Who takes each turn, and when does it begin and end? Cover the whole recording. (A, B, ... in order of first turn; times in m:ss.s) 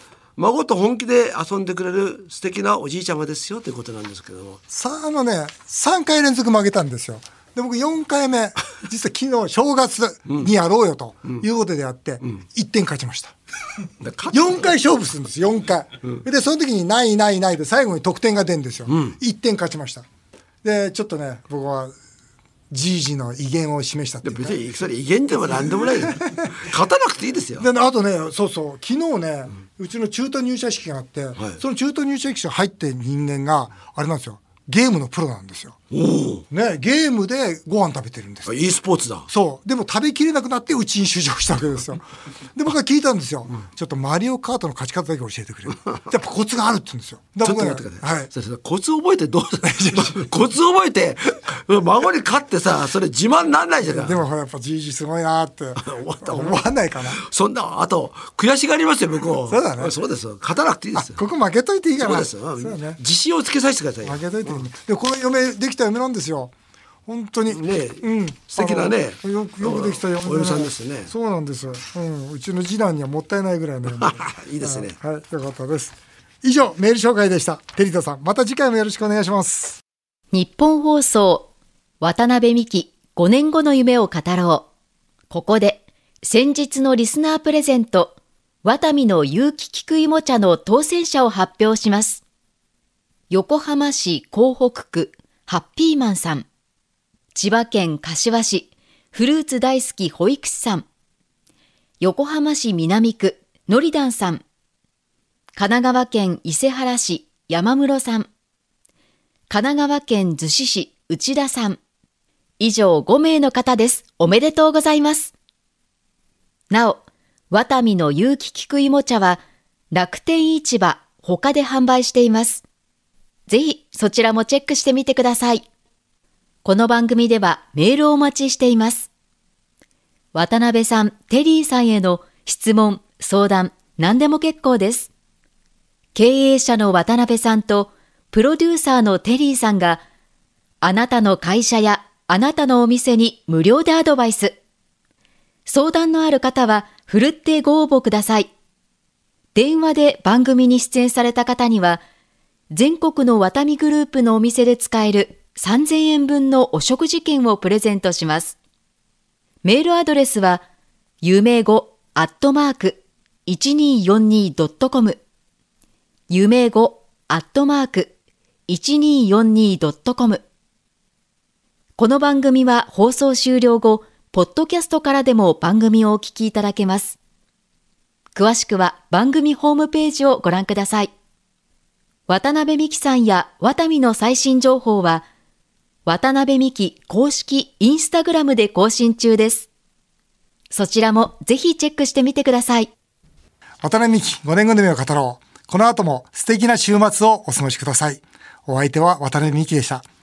0:00.4-0:04.6 A
0:04.7-0:13.3 B
0:14.0-0:14.7 A
0:14.3-0:20.0 B
0:18.9-0:19.2 A
0:20.6-0:22.0 B
0:22.7-0:24.6 B
0:24.2-0:27.7 A
0:25.5-0:26.6 B
0:27.6-0:35.8 B
0:35.9-0:36.4 A
0:36.5-0:38.5 B
0:38.5-0:39.3 A
0:39.3-0:42.0 B
0:42.6-0:48.3 B
0:47.4-0:54.2 A
0:49.6-0:50.2 B
0:53.9-0:57.2 B
0:55.8-1:01.2 A
0:59.5-1:00.0 B
1:01.0-1:03.0 B
1:02.0-1:04.7 A
1:04.0-1:06.5 B
1:07.1-1:19.8 B
1:07.5-1:11.1 A
1:13.9-1:15.0 A
1:20.3-1:21.5 C
1:22.0-1:24.7 C
1:25.3-1:32.2 C
1:33.3-1:36.5 C
1:37.4-1:40.8 C
1:42.0-1:44.4 C
1:45.6-1:48.3 C
1:49.5-1:51.8 C
1:52.6-1:55.3 C
1:56.7-1:59.4 C
1:59.9-2:02.6 C
2:03.5-2:05.6 C
2:06.6-2:09.1 C
2:10.3-2:15.1 C
2:16.2-2:20.0 C
2:20.8-2:24.5 C
2:25.7-2:28.5 C
2:29.6-2:32.0 C
2:32.7-2:38.6 C
2:39.6-2:40.6 C
2:41.2-2:45.2 C
2:46.3-2:48.1 C
2:48.7-2:50.4 C
2:52.0-2:57.2 C
2:58.4-3:01.1 C
3:02.3-3:05.2 C
3:06.1-3:09.7 C
3:10.7-3:12.9 C
3:13.8-3:20.0 B